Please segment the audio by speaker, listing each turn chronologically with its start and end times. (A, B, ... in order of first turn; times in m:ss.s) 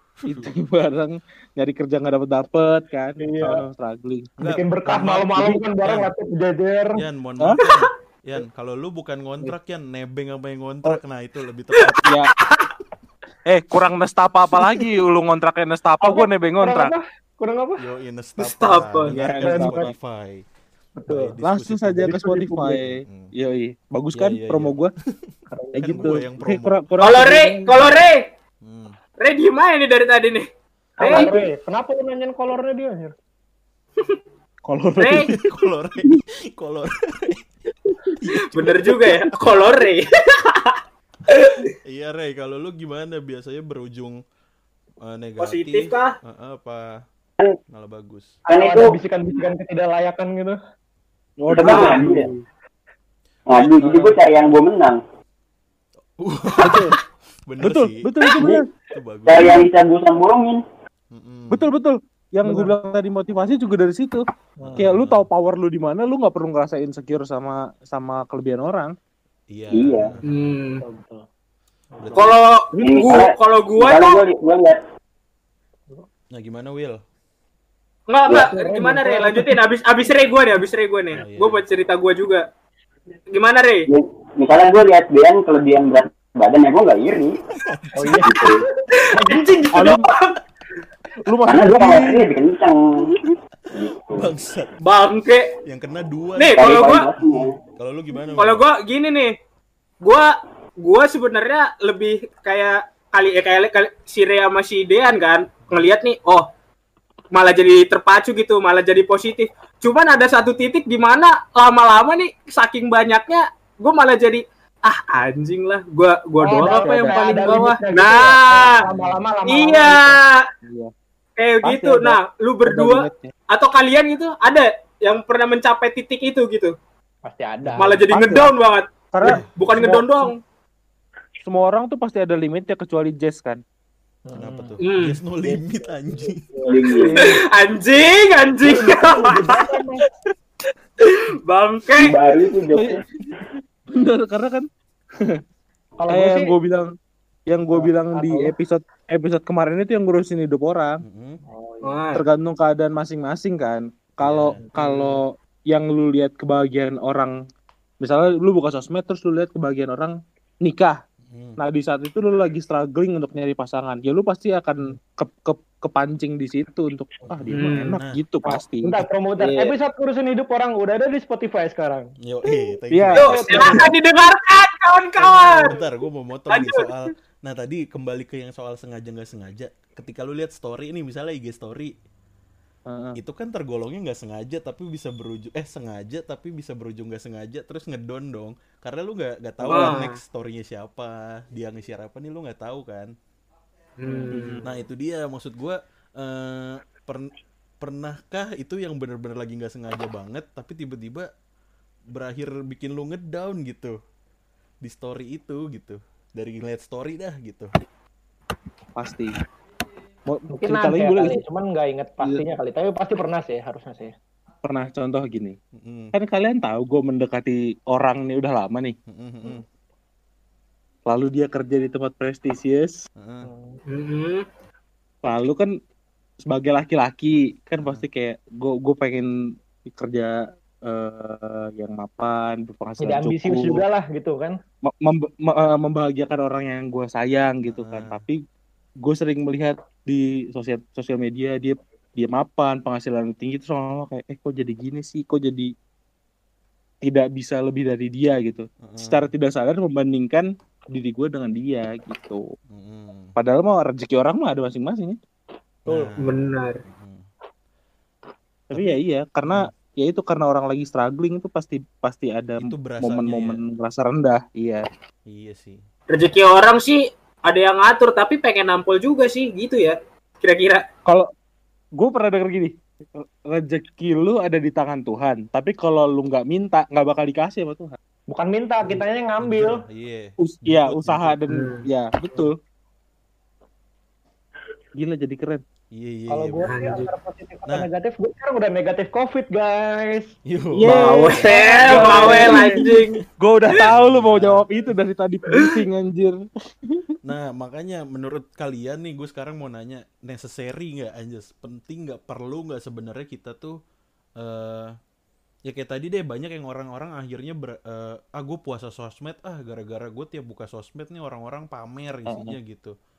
0:00.2-0:00.5 A
0:00.3-0:04.3 B
0:03.2-0:03.6 C
0:04.4-0:06.1 A
0:04.4-0:07.0 C
0:07.0-0:12.1 A
0:11.8-0:12.7 D
0:12.0-0:12.3 B
0:13.5-0:16.9 B
0:16.0-0:17.8 C
0:17.8-0:20.4 A
0:18.4-0:19.1 D
0:19.0-0:19.9 B
0:19.4-0:19.9 C
0:21.0-0:21.3 C
0:21.1-0:23.3 A
0:21.4-0:24.9 B
0:24.1-0:26.8 A
0:25.5-0:26.2 C
0:25.8-0:27.8 B
0:27.0-0:28.3 D
0:28.6-0:29.0 A
0:29.2-0:30.5 D
0:31.0-0:33.1 C
0:31.0-0:31.3 D
0:31.0-0:31.5 B
0:34.7-0:35.3 B
0:35.0-0:35.3 D
0:35.3-0:37.4 A
0:38.2-0:39.5 A
0:38.5-0:41.7 D
0:41.8-0:44.2 A
0:45.0-0:47.0 A
0:45.4-0:46.1 D
0:47.7-0:48.4 A
0:48.5-0:49.0 E
0:48.5-0:50.6 C
0:51.4-0:52.4 B
0:51.5-0:52.3 E
0:51.7-0:52.1 C
0:53.5-0:55.0 E
0:53.8-0:54.2 B
0:56.2-0:56.9 A
0:56.6-0:57.0 B
0:57.5-0:58.3 A
0:57.6-0:58.7 B
0:58.4-0:58.6 E
0:58.8-0:59.6 A
0:59.3-1:00.6 E
1:01.1-1:01.7 A
1:01.5-1:04.2 B
1:02.4-1:02.8 C
1:04.6-1:04.8 C
1:04.6-1:05.3 A
1:04.8-1:08.9 B
1:09.5-1:10.2 A
1:09.7-1:10.1 E
1:10.3-1:10.8 D
1:10.8-1:11.2 C
1:12.0-1:12.3 C
1:12.0-1:12.4 A
1:12.2-1:14.2 D
1:12.7-1:13.2 B
1:12.8-1:14.8 E
1:16.3-1:17.0 A
1:18.1-1:22.5 D
1:18.3-1:19.6 C
1:21.1-1:21.6 A
1:23.3-1:23.9 D
1:23.9-1:27.4 E
1:27.6-1:28.2 A
1:28.0-1:28.5 C
1:28.2-1:28.7 E
1:28.9-1:30.3 D
1:29.1-1:29.7 C
1:29.7-1:30.1 B
1:31.3-1:32.3 B
1:31.5-1:33.1 E
1:33.7-1:34.3 E
1:33.9-1:34.8 A
1:34.8-1:35.5 D
1:35.6-1:38.6 A
1:36.4-1:37.1 D
1:36.6-1:37.6 E
1:38.4-1:39.3 D
1:40.0-1:40.3 D
1:40.8-1:46.5 D
1:47.3-1:58.8 D
1:56.4-2:00.2 C
1:56.5-1:57.6 B
1:58.9-1:59.2 B
1:59.5-2:00.4 D
2:00.6-2:00.9 B
2:01.4-2:06.7 D
2:01.6-2:03.3 B
2:07.2-2:07.9 C
2:07.8-2:10.4 D
2:08.1-2:08.5 B
2:09.1-2:10.3 B
2:09.2-2:09.5 A
2:11.4-2:13.6 B
2:14.3-2:14.8 C
2:14.3-2:16.6 A
2:14.8-2:15.2 D
2:15.4-2:17.4 C
2:16.6-2:17.2 E
2:17.2-2:19.6 D
2:18.6-2:20.0 C
2:21.0-2:22.2 D
2:22.0-2:23.0 E
2:22.7-2:23.0 B
2:23.9-2:24.7 B
2:26.0-2:26.5 C
2:26.1-2:26.9 B
2:27.5-2:31.0 B
2:27.7-2:28.5 C
2:31.0-2:31.4 A
2:31.5-2:32.0 C
2:31.8-2:32.2 D
2:32.2-2:37.3 B
2:34.2-2:35.2 A
2:38.0-2:41.0 B
2:41.3-2:41.6 A
2:41.6-2:49.8 B
2:47.3-2:48.2 A
2:47.6-2:48.0 D
2:48.4-2:52.1 C
2:52.2-2:53.8 A
2:52.9-2:53.8 B
2:53.2-2:55.7 D
2:53.2-2:53.9 C
2:55.3-2:55.6 C
2:55.3-3:01.9 A
2:56.5-2:56.9 D
3:02.9-3:03.2 B
3:03.2-3:13.1 A
3:09.6-3:10.0 B
3:09.7-3:10.2 D
3:14.0-3:14.6 D
3:14.1-3:14.6 B
3:14.6-3:21.3 A
3:22.1-3:24.0 A
3:24.8-3:27.7 A
3:29.0-3:29.3 B
3:30.3-3:31.4 B
3:30.5-3:34.1 C
3:34.6-3:35.6 B
3:35.7-3:36.1 A
3:36.1-3:39.0 B
3:39.1-3:39.6 A
3:41.1-3:43.0 B
3:43.2-3:43.5 A
3:43.4-3:43.8 C
3:43.9-3:44.5 D
3:45.2-3:45.7 B
3:46.5-3:49.3 B
3:47.8-3:48.0 A
3:49.9-3:53.8 B
3:53.0-3:54.6 C
3:54.9-3:58.4 B
3:57.7-3:58.2 A
3:59.0-4:05.7 B
4:07.0-4:12.4 B
4:08.8-4:09.3 A
4:12.7-4:13.4 A
4:13.4-4:15.2 B
4:15.9-4:17.3 A
4:16.2-4:16.8 D
4:18.7-4:19.0 A
4:18.7-4:24.8 B
4:22.6-4:23.6 A
4:25.3-4:25.8 A
4:26.1-4:30.8 D
4:32.0-4:38.0 B
4:38.3-4:39.8 C
4:39.4-4:41.4 A
4:40.4-4:42.6 B
4:41.5-4:41.9 D
4:45.0-4:45.6 B
4:45.9-4:46.7 A
4:46.3-4:50.4 C
4:46.6-4:47.1 D
4:50.5-4:52.6 A
4:50.8-4:52.8 B
4:50.9-4:53.8 D
4:51.4-4:52.6 C
4:53.4-4:57.0 B
4:53.7-4:54.7 A
4:57.2-5:03.8 A
5:04.4-5:04.9 A
5:05.6-5:13.0 A
5:12.3-5:12.6 B